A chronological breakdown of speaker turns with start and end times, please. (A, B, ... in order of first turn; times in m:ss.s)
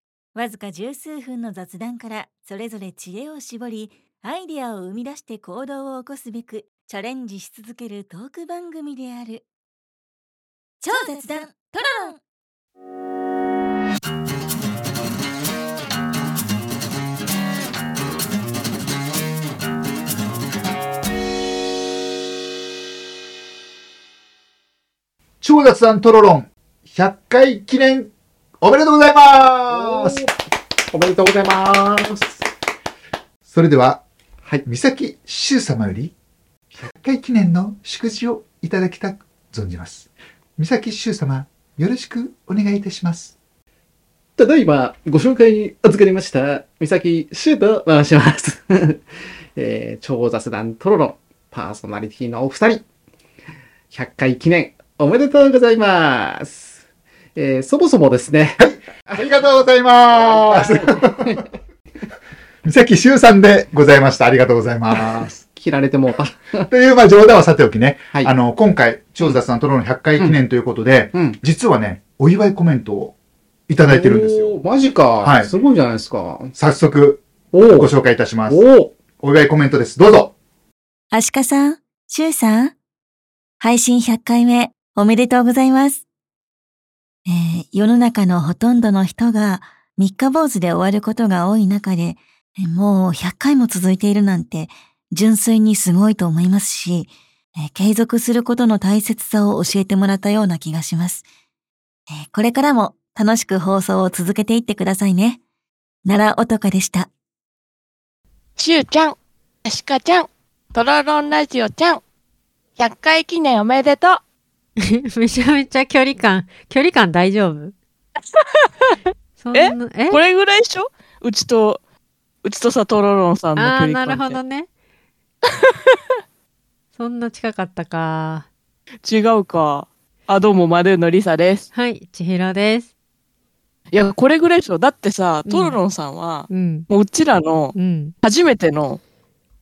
0:00.3-0:09.4 A
0:10.8-0:12.2 A
0:25.4-0:30.2 B
0:29.7-0:32.4 C
0:33.4-0:34.0 B
0:34.6-0:36.1 B
0:36.8-0:43.3 B
0:44.4-0:49.0 C
0:49.6-0:52.8 C
0:53.9-0:56.8 C
0:57.3-0:59.2 C
0:58.6-1:01.4 B
1:00.1-1:01.5 C
1:02.6-1:05.3 B
1:04.9-1:06.7 C
1:06.7-1:13.1 B
1:11.1-1:11.4 C
1:13.7-1:14.5 B
1:13.8-1:16.5 C
1:15.2-1:15.5 B
1:16.6-1:18.6 B
1:17.5-1:17.9 C
1:18.5-1:18.9 C
1:19.2-1:20.3 B
1:21.1-1:22.7 A
1:23.6-1:26.0 A
1:27.3-1:41.2 A
1:42.1-1:45.4 A
1:46.0-1:47.1 A
1:48.6-1:52.0 D
1:52.8-1:54.2 D
1:54.8-1:57.7 E
1:58.3-1:58.9 D
1:59.4-2:00.2 E
1:59.5-2:01.8 D
2:02.4-2:04.4 D
2:03.6-2:04.7 E
2:05.5-2:06.0 D
2:06.9-2:08.4 E
2:09.0-2:11.7 D
2:11.7-2:12.9 E
2:13.9-2:19.0 D
2:15.4-2:15.8 E
2:16.5-2:16.9 E
2:17.7-2:18.1 E